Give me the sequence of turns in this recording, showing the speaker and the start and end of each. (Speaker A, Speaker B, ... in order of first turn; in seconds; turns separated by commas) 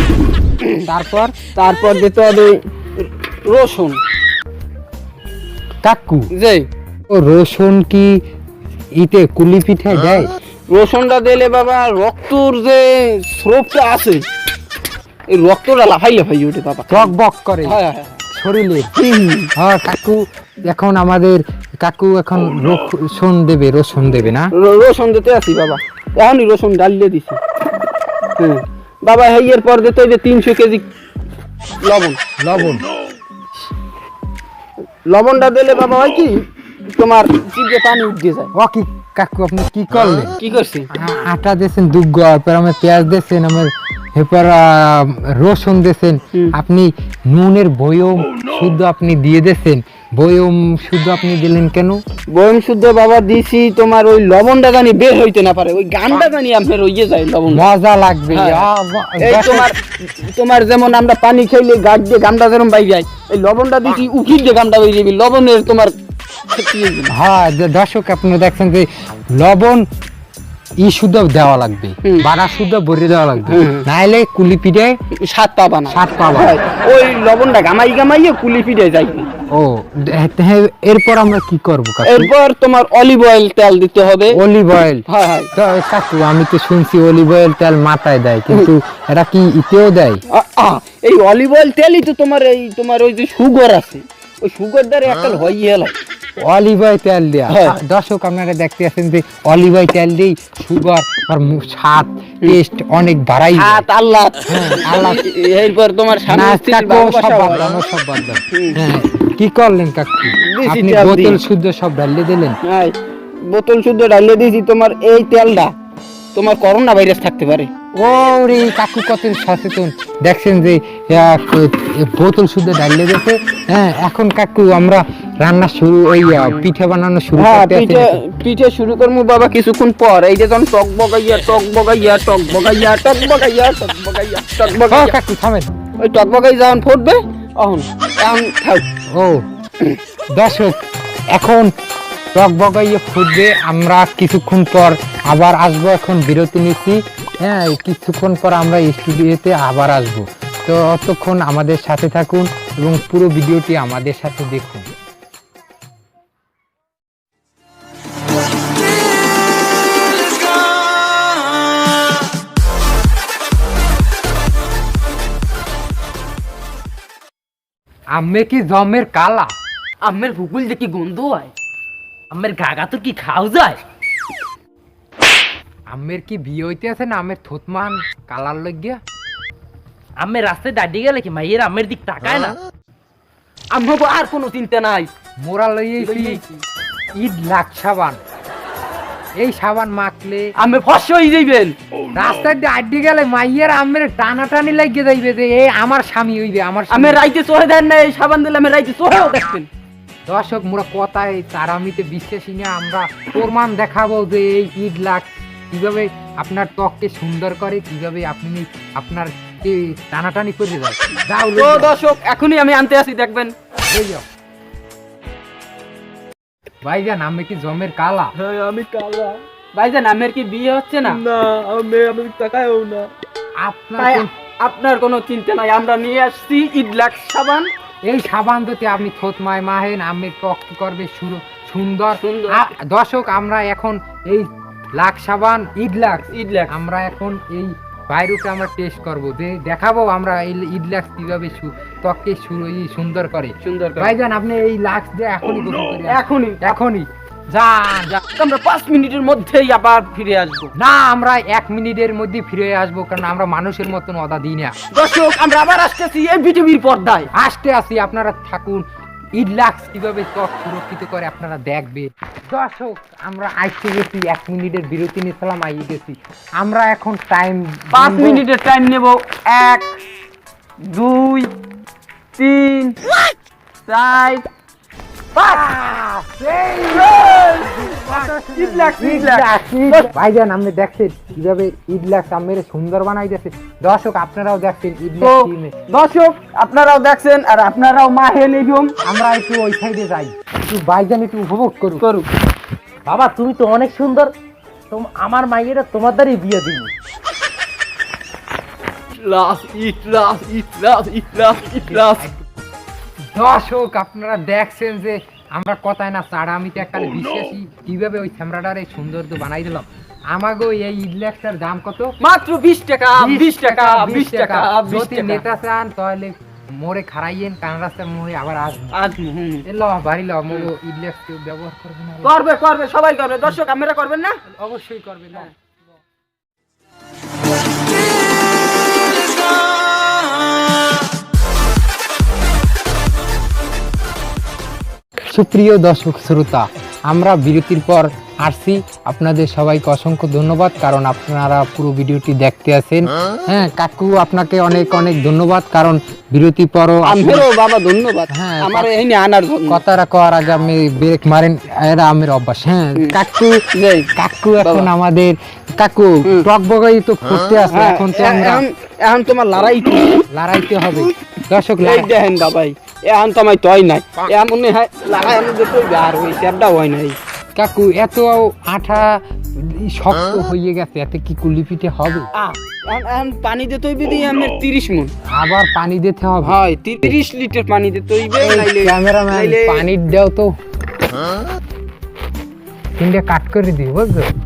Speaker A: 0.8-1.3, Speaker B: 1.6-4.0, Speaker A: 5.8-6.3, Speaker B: 6.3-6.7, Speaker A: 7.1-8.2, Speaker A: 9.0-10.3, Speaker B: 10.7-14.2, Speaker B: 15.3-17.1, Speaker A: 16.9-17.8, Speaker B: 17.6-18.2, Speaker A: 18.4-18.9, Speaker B: 19.0-19.5, Speaker A: 19.6-24.5, Speaker B: 24.5-27.4, Speaker B: 28.4-30.8, Speaker B: 31.8-32.2, Speaker A: 32.4-32.9, Speaker B: 35.0-36.4, Speaker B: 37.0-38.5, Speaker A: 38.5-40.3, Speaker B: 40.4-40.9, Speaker A: 40.9-52.0, Speaker B: 52.3-57.7, Speaker A: 57.5-59.7, Speaker B: 58.3-65.9, Speaker B: 66.5-67.1, Speaker A: 67.1-69.8, Speaker A: 70.8-75.0, Speaker B: 73.5-73.8, Speaker B: 75.2-79.3, Speaker A: 75.9-76.6, Speaker A: 79.5-82.3, Speaker B: 82.0-84.4, Speaker A: 84.3-90.2, Speaker B: 85.1-85.5, Speaker B: 90.3-95.9, Speaker A: 96.4-103.8, Speaker B: 97.5-97.8, Speaker B: 103.5-107.8, Speaker A: 104.5-105.2, Speaker A: 106.3-112.6, Speaker B: 108.5-108.8, Speaker B: 110.4-111.4, Speaker B: 112.6-112.9, Speaker B: 113.5-115.7, Speaker B: 116.3-117.7, Speaker A: 118.0-128.2, Speaker B: 126.4-126.6, Speaker B: 127.3-135.2, Speaker A: 134.9-135.7, Speaker B: 136.0-138.8, Speaker A: 139.1-139.4, Speaker A: 140.3-140.8, Speaker A: 141.3-141.7, Speaker A: 142.3-154.8, Speaker A: 168.1-169.5, Speaker B: 170.0-171.5, Speaker C: 172.3-173.8, Speaker A: 175.9-179.0, Speaker C: 180.2-182.6, Speaker B: 183.7-185.1, Speaker A: 185.4-186.4, Speaker B: 186.0-186.6, Speaker A: 187.2-188.2, Speaker A: 189.4-190.5, Speaker B: 190.6-191.8, Speaker A: 192.1-197.2, Speaker B: 196.9-199.7, Speaker A: 200.3-211.9, Speaker B: 211.6-213.5, Speaker A: 213.9-214.2, Speaker A: 216.8-218.3, Speaker B: 218.4-221.2, Speaker B: 222.4-223.1, Speaker A: 223.6-224.3, Speaker B: 224.0-227.7, Speaker A: 228.0-248.2, Speaker B: 232.1-232.6, Speaker B: 236.3-236.7, Speaker B: 243.6-244.1, Speaker B: 246.1-246.8, Speaker B: 248.1-250.7, Speaker A: 250.8-254.8, Speaker B: 254.9-257.3, Speaker A: 257.3-258.8, Speaker A: 259.4-268.4, Speaker B: 267.9-270.0, Speaker B: 270.8-271.5, Speaker B: 272.4-273.0, Speaker B: 273.9-274.5, Speaker A: 275.4-285.7, Speaker B: 276.9-280.1, Speaker B: 285.2-288.9, Speaker A: 289.0-292.0, Speaker B: 292.0-292.3, Speaker C: 293.1-294.3, Speaker C: 294.9-296.9, Speaker B: 299.2-302.2, Speaker C: 299.8-300.4, Speaker A: 301.9-302.4, Speaker A: 303.3-312.1, Speaker B: 312.2-315.4, Speaker A: 313.2-319.0, Speaker B: 318.9-319.6, Speaker A: 319.6-322.3, Speaker B: 322.2-324.4, Speaker A: 324.5-325.5, Speaker A: 335.2-347.4, Speaker B: 347.0-349.8, Speaker A: 348.3-348.9, Speaker A: 349.7-353.6, Speaker B: 353.7-354.1, Speaker A: 354.1-358.6, Speaker B: 354.6-354.9, Speaker B: 357.7-360.2, Speaker A: 360.3-362.1, Speaker B: 361.8-367.1, Speaker A: 367.6-372.3, Speaker B: 372.3-375.1, Speaker A: 375.3-377.1, Speaker B: 376.4-379.9, Speaker A: 378.4-380.5, Speaker A: 383.0-384.3